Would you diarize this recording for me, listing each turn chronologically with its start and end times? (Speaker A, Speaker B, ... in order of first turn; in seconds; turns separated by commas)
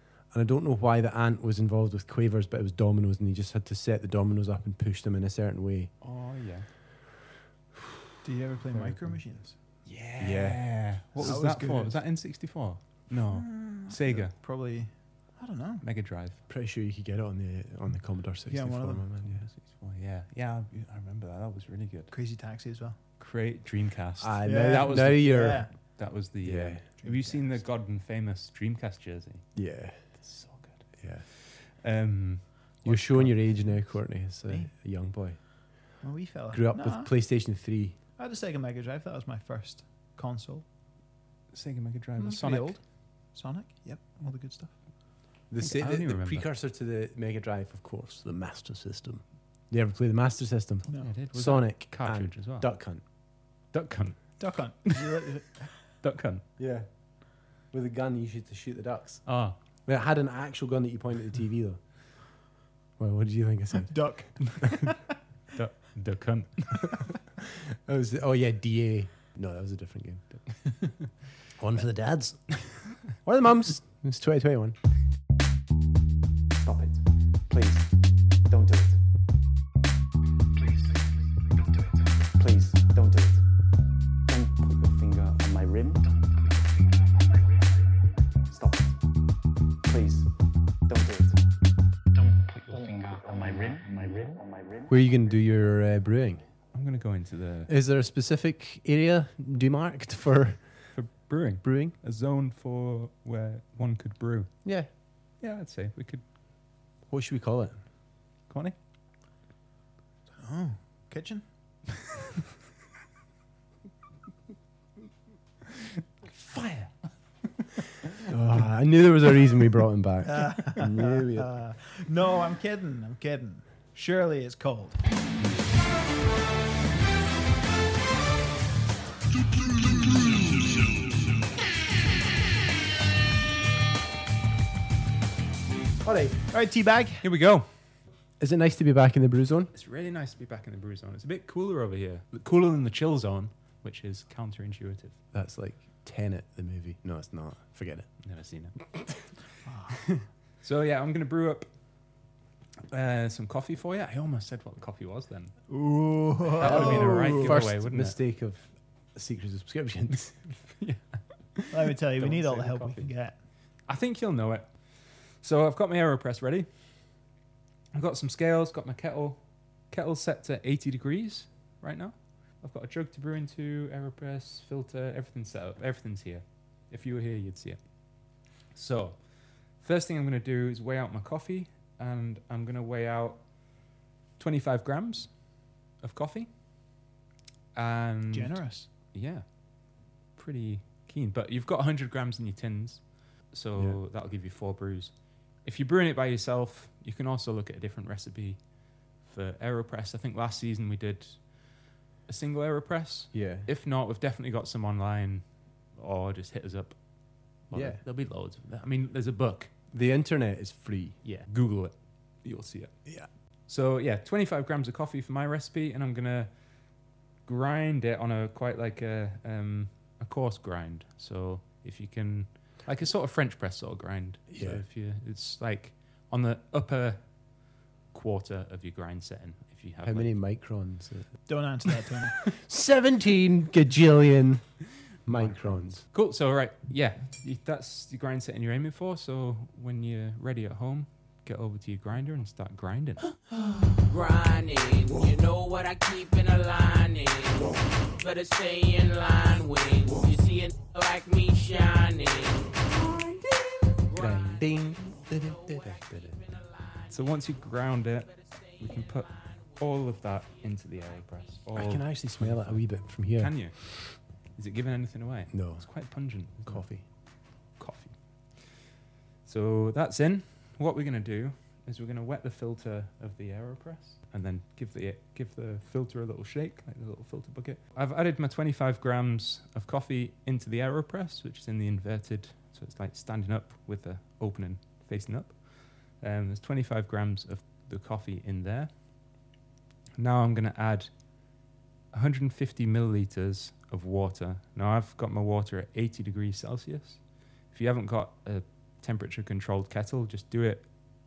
Speaker A: 0.3-5.9, Speaker B: 6.0-6.7, Speaker C: 8.2-9.5, Speaker B: 8.7-9.1, Speaker B: 9.8-14.3, Speaker A: 10.2-10.6, Speaker C: 11.2-12.0, Speaker C: 13.3-15.8, Speaker B: 15.8-16.4, Speaker A: 16.5-19.5, Speaker C: 18.5-19.0, Speaker B: 19.3-22.1, Speaker C: 22.1-23.0, Speaker B: 23.2-29.4, Speaker A: 24.2-25.6, Speaker C: 24.4-25.7, Speaker A: 26.4-26.8, Speaker C: 27.0-27.6, Speaker A: 29.5-30.0, Speaker B: 30.2-33.8, Speaker A: 31.0-31.2, Speaker A: 32.8-35.4, Speaker C: 36.0-37.1, Speaker A: 36.5-38.0, Speaker C: 38.2-40.6, Speaker B: 41.5-42.8, Speaker C: 42.2-44.7, Speaker A: 45.5-53.0, Speaker B: 45.6-46.5, Speaker B: 50.9-52.7, Speaker B: 53.7-55.0, Speaker C: 54.4-55.7, Speaker B: 56.0-56.4, Speaker A: 56.6-56.9, Speaker A: 57.7-59.2, Speaker B: 59.2-59.6, Speaker A: 59.9-62.0, Speaker A: 63.0-64.1, Speaker C: 63.9-65.0, Speaker B: 65.5-66.9, Speaker A: 67.8-70.2, Speaker A: 71.5-74.8, Speaker D: 76.5-79.0, Speaker D: 80.6-81.1, Speaker D: 81.8-83.4, Speaker D: 84.3-86.6, Speaker D: 88.5-89.0, Speaker D: 89.8-90.3, Speaker D: 90.8-91.4, Speaker D: 92.2-94.9, Speaker A: 94.9-96.4, Speaker B: 96.7-97.7, Speaker A: 97.7-100.6, Speaker B: 100.9-104.5, Speaker A: 101.6-101.9, Speaker A: 104.6-104.9, Speaker B: 105.4-106.2, Speaker A: 107.1-107.8, Speaker B: 108.5-108.7, Speaker C: 110.4-111.4, Speaker B: 116.3-117.0, Speaker A: 118.2-121.5, Speaker C: 120.2-125.0, Speaker A: 136.0-136.4, Speaker C: 136.5-137.2, Speaker B: 137.2-137.7, Speaker A: 138.4-139.7, Speaker B: 139.7-145.1, Speaker A: 145.3-148.1, Speaker B: 148.2-148.7, Speaker C: 149.6-150.2, Speaker B: 150.6-151.7, Speaker B: 152.9-155.5, Speaker C: 155.7-157.6, Speaker B: 156.6-158.2, Speaker A: 156.6-160.4, Speaker B: 160.8-163.1, Speaker C: 161.7-163.4, Speaker B: 163.8-166.7, Speaker B: 167.9-183.6, Speaker B: 184.4-186.5, Speaker B: 187.7-188.6, Speaker C: 188.3-188.9, Speaker B: 189.1-189.7, Speaker B: 190.3-207.0, Speaker A: 203.3-203.7, Speaker B: 207.5-209.7, Speaker A: 207.7-208.0, Speaker A: 209.9-211.2, Speaker B: 211.2-213.1, Speaker B: 213.7-216.6, Speaker B: 217.4-227.2, Speaker A: 224.5-224.8, Speaker B: 228.1-230.3, Speaker A: 230.0-231.4, Speaker C: 231.5-232.4, Speaker A: 232.4-234.6, Speaker A: 235.2-236.0, Speaker B: 235.3-243.3, Speaker E: 244.1-252.8, Speaker E: 254.1-257.1, Speaker A: 254.1-256.4, Speaker B: 257.1-267.1, Speaker E: 258.5-259.6, Speaker A: 261.7-263.9, Speaker A: 265.5-265.9, Speaker A: 266.6-267.0, Speaker B: 267.8-268.1, Speaker B: 269.4-288.9, Speaker B: 290.2-291.1, Speaker B: 292.1-300.9